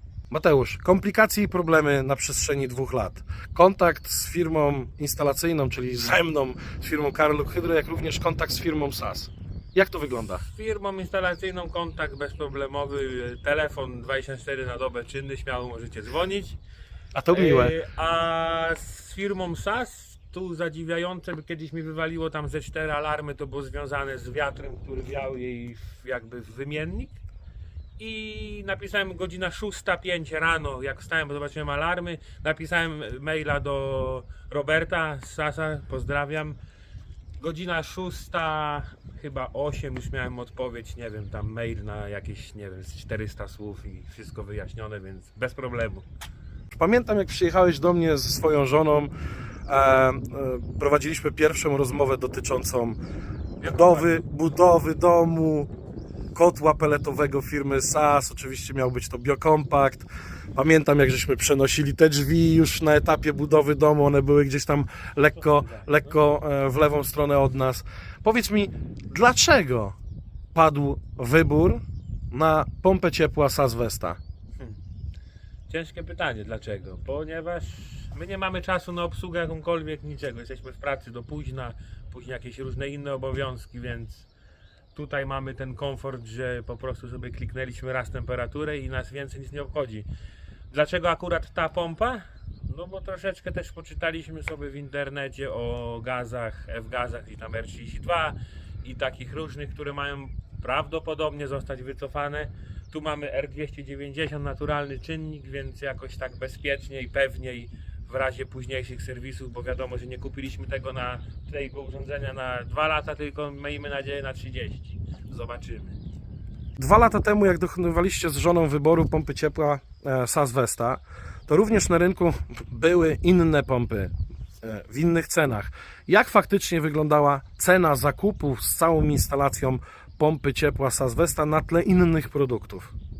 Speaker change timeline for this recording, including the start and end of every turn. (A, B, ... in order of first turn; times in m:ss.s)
0:00.3-0:10.4 A
0:10.4-0:16.6 B
0:17.1-0:17.8 A
0:17.3-0:27.2 B
0:28.0-0:36.6 B
0:37.4-0:46.0 B
0:46.7-0:49.1 A
0:49.7-0:53.0 A
0:53.6-0:54.3 B
0:53.6-0:55.7 A
0:56.3-1:09.9 A
1:05.4-1:06.2 B
1:10.5-1:14.2 A
1:15.7-1:24.3 B
1:24.9-1:30.1 B
1:30.7-1:56.0 B
1:56.8-2:12.9 A